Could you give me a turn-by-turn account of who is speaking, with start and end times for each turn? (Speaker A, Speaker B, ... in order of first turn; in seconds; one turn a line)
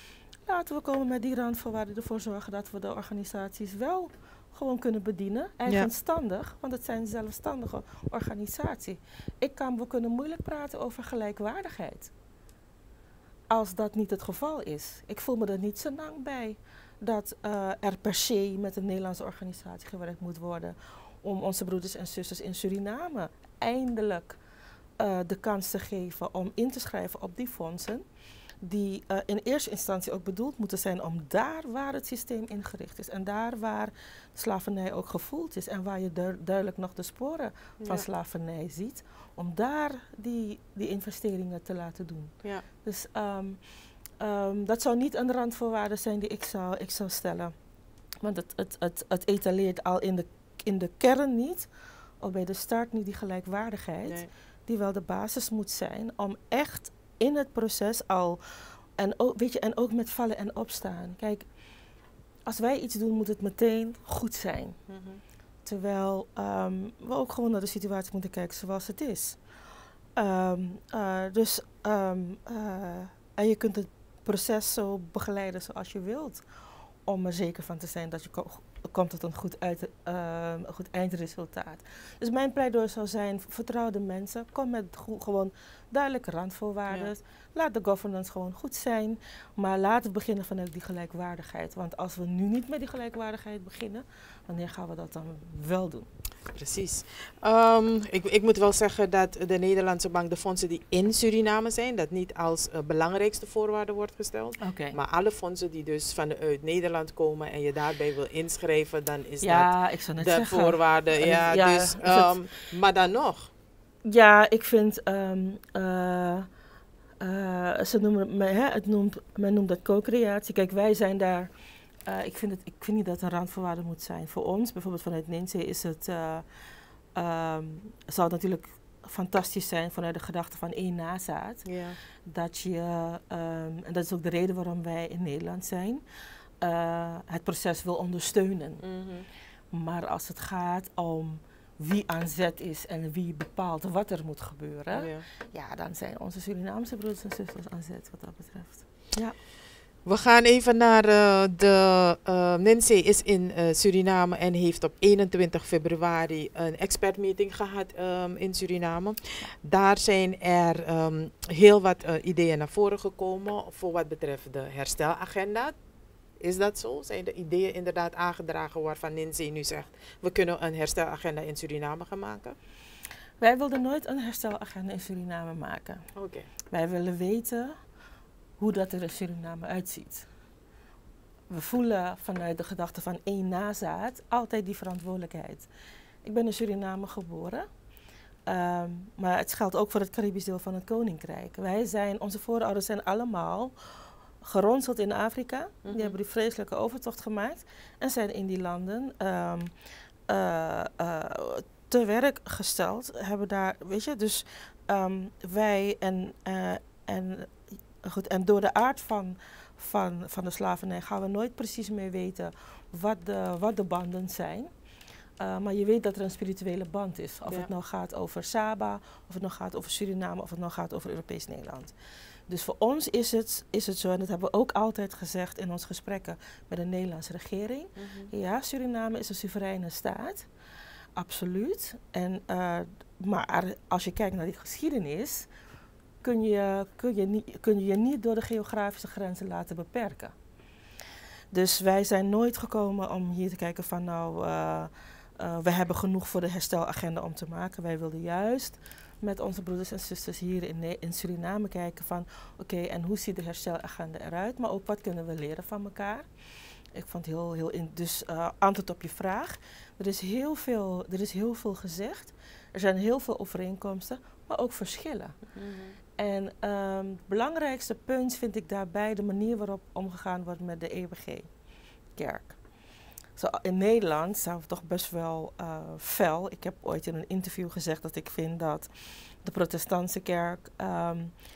Speaker A: 0.5-12.1
Speaker A: 13.5-24.4
Speaker A: 25.0-28.0
Speaker A: 28.6-43.6
Speaker A: 44.2-47.5
Speaker A: 48.2-51.7
Speaker A: 52.2-61.5
Speaker B: 54.0-54.3
Speaker A: 62.5-64.8
Speaker B: 64.9-65.2
Speaker A: 65.7-69.4
Speaker A: 70.2-76.5
Speaker A: 77.1-96.1
Speaker B: 96.5-113.5
Speaker A: 104.6-105.0
Speaker A: 109.4-112.4
Speaker A: 114.0-116.5
Speaker A: 117.2-121.5
Speaker A: 122.0-126.5
Speaker A: 127.2-131.7
Speaker B: 131.7-132.0
Speaker A: 132.2-136.0
Speaker A: 136.6-138.8
Speaker B: 138.8-139.3
Speaker A: 139.7-149.4
Speaker B: 144.9-145.2
Speaker B: 150.1-165.8
Speaker B: 166.4-172.6
Speaker A: 173.4-176.0
Speaker B: 176.2-176.5
Speaker A: 176.7-177.8
Speaker A: 178.6-180.3
Speaker A: 181.5-185.7
Speaker A: 186.2-187.7
Speaker A: 188.5-193.7
Speaker A: 194.4-199.7
Speaker B: 195.8-196.2
Speaker A: 200.3-214.7
Speaker A: 215.4-221.9
Speaker A: 222.5-230.5
Speaker B: 228.0-228.3
Speaker A: 231.2-235.5
Speaker A: 236.2-240.3
Speaker A: 241.5-256.3
Speaker A: 256.9-265.4
Speaker B: 265.6-266.0
Speaker A: 266.2-271.5
Speaker A: 272.2-272.6
Speaker A: 273.4-281.3